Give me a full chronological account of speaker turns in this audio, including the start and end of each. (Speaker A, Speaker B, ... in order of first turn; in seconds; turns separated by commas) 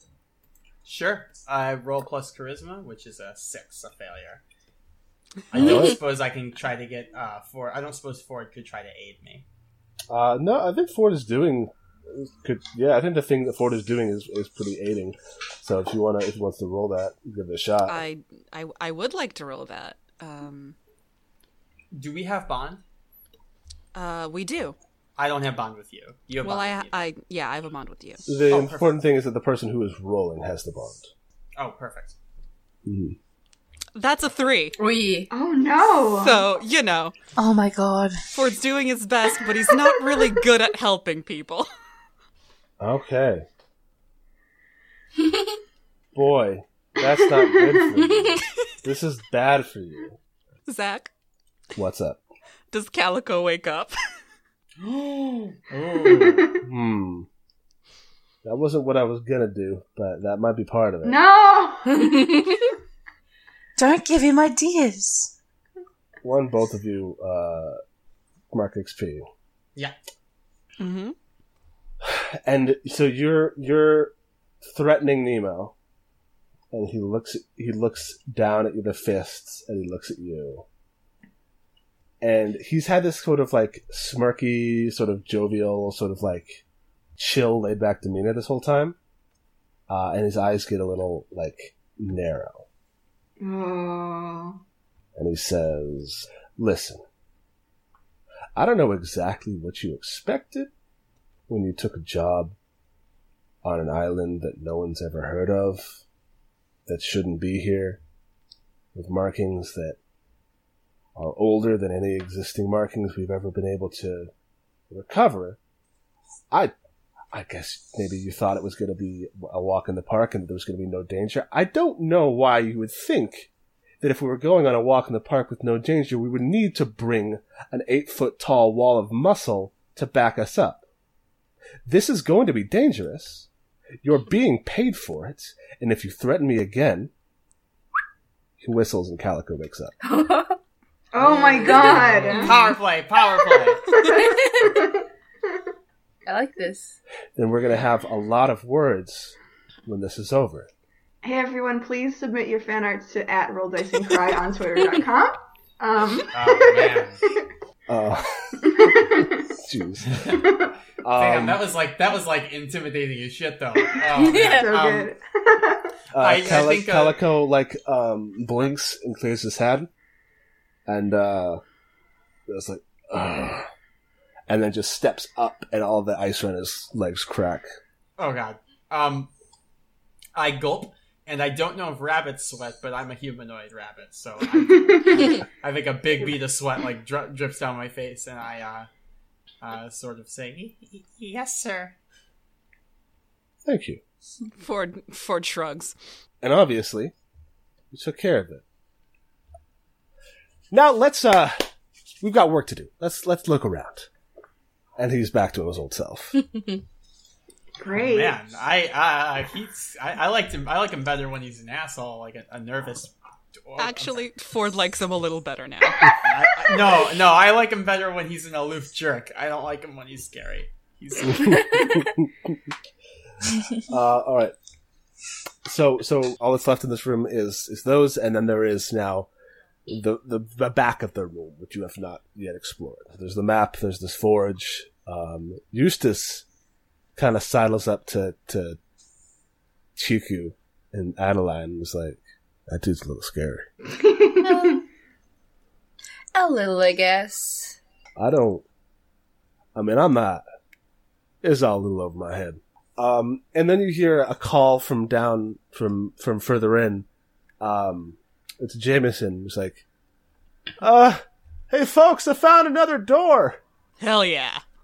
Speaker A: 0.8-4.4, Speaker A: 5.5-9.4, Speaker B: 5.5-6.0, Speaker B: 10.1-18.0, Speaker C: 17.9-20.8, Speaker A: 21.9-22.8, Speaker C: 23.9-24.8, Speaker A: 25.2-27.1, Speaker C: 26.4-28.2, Speaker B: 28.3-31.1, Speaker A: 28.5-28.9, Speaker A: 31.6-32.2, Speaker B: 32.9-33.2, Speaker C: 34.0-34.8, Speaker D: 34.8-35.3, Speaker E: 35.3-36.5, Speaker C: 36.1-37.1, Speaker F: 37.4-38.2, Speaker C: 38.3-41.7, Speaker B: 42.8-43.5, Speaker B: 46.1-50.2, Speaker C: 50.7-51.1, Speaker B: 51.8-52.2, Speaker C: 52.7-54.0, Speaker A: 54.8-56.6, Speaker E: 56.0-56.6, Speaker B: 56.6-57.3, Speaker B: 58.4-61.2, Speaker E: 61.0-62.4, Speaker D: 62.0-62.5, Speaker F: 63.8-65.3, Speaker B: 66.2-67.8, Speaker B: 68.5-69.3, Speaker C: 70.8-71.2, Speaker B: 72.0-75.7, Speaker B: 76.7-80.7, Speaker B: 82.2-86.6, Speaker B: 87.2-89.0, Speaker B: 89.9-92.7, Speaker E: 93.4-94.6, Speaker B: 95.2-97.0, Speaker B: 98.6-100.7, Speaker B: 101.5-102.5, Speaker B: 103.6-106.0, Speaker B: 106.9-108.0, Speaker B: 108.9-110.0, Speaker B: 111.2-114.3, Speaker B: 114.9-115.6, Speaker B: 117.3-123.5, Speaker B: 124.0-130.8, Speaker B: 131.9-133.5, Speaker B: 134.0-137.1, Speaker B: 138.6-139.9, Speaker D: 140.0-140.6, Speaker E: 141.1-142.8, Speaker D: 141.2-142.7, Speaker A: 141.3-143.9, Speaker E: 143.9-145.0, Speaker D: 144.0-144.9, Speaker D: 146.3-147.0, Speaker B: 147.4-150.7, Speaker E: 151.2-157.3, Speaker A: 156.3-157.2, Speaker B: 157.9-160.4, Speaker E: 158.6-159.4, Speaker A: 160.1-160.5, Speaker E: 160.4-160.7, Speaker B: 161.0-161.6, Speaker A: 161.2-165.1, Speaker E: 163.9-165.9, Speaker D: 164.2-164.7, Speaker B: 166.1-169.9, Speaker A: 166.2-167.2, Speaker B: 170.9-171.6, Speaker B: 172.5-173.7, Speaker B: 174.5-177.7, Speaker A: 178.2-179.3, Speaker A: 180.3-188.9, Speaker E: 184.7-185.3, Speaker A: 189.6-192.0, Speaker B: 193.7-194.0, Speaker C: 194.5-195.9, Speaker B: 196.4-197.1, Speaker B: 197.9-198.6, Speaker B: 200.7-201.7, Speaker B: 202.2-204.1, Speaker B: 205.0-206.4, Speaker E: 207.8-208.4, Speaker A: 207.9-214.3, Speaker C: 213.8-216.2, Speaker A: 216.2-221.9, Speaker B: 221.3-222.6, Speaker B: 223.8-224.6, Speaker B: 225.7-229.3, Speaker B: 229.9-236.4, Speaker B: 237.2-238.8, Speaker B: 240.0-243.7, Speaker E: 243.9-244.8, Speaker D: 246.3-247.8, Speaker B: 248.2-248.7, Speaker B: 249.8-250.4, Speaker B: 251.4-257.1, Speaker B: 257.6-259.8, Speaker B: 260.8-263.6, Speaker C: 264.0-264.6